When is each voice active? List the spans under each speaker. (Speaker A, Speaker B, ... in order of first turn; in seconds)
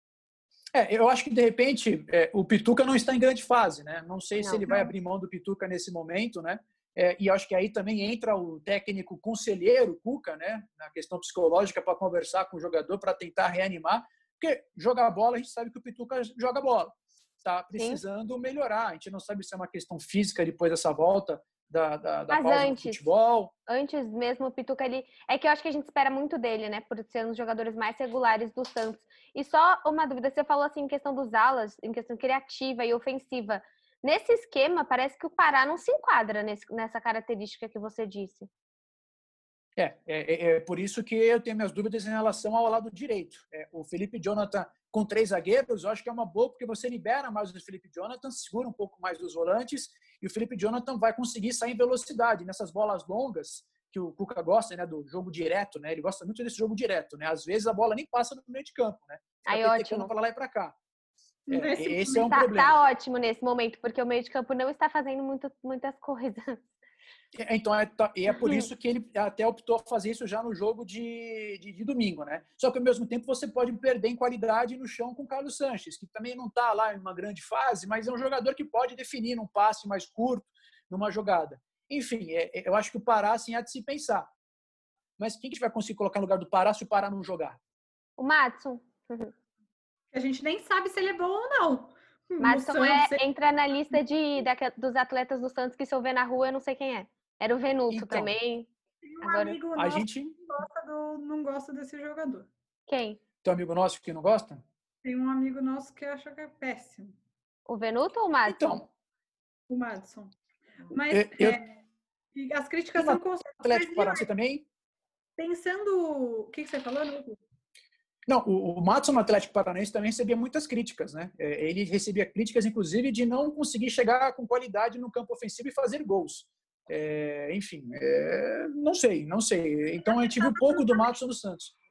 Speaker A: 0.7-23.5, 39.8-60.8, 61.5-62.8, 67.3-84.3, 85.2-87.6, 97.9-98.3, 99.5-100.3, 103.4-104.6, 108.5-108.8, 111.1-111.6, 113.0-114.7, 118.3-131.7
Speaker B: 4.4-4.7, 22.3-23.0, 23.7-38.5, 59.5-60.1, 62.3-66.6, 68.3-68.7, 88.2-89.3, 92.4-98.7, 99.2-99.6, 102.9-103.2, 107.7-108.8
Speaker C: 4.7-4.9, 61.5-62.4, 90.1-93.2, 99.0-102.5, 105.0-107.2, 109.7-110.3, 110.9-111.7, 112.3-114.3, 115.4-117.4, 130.1-131.1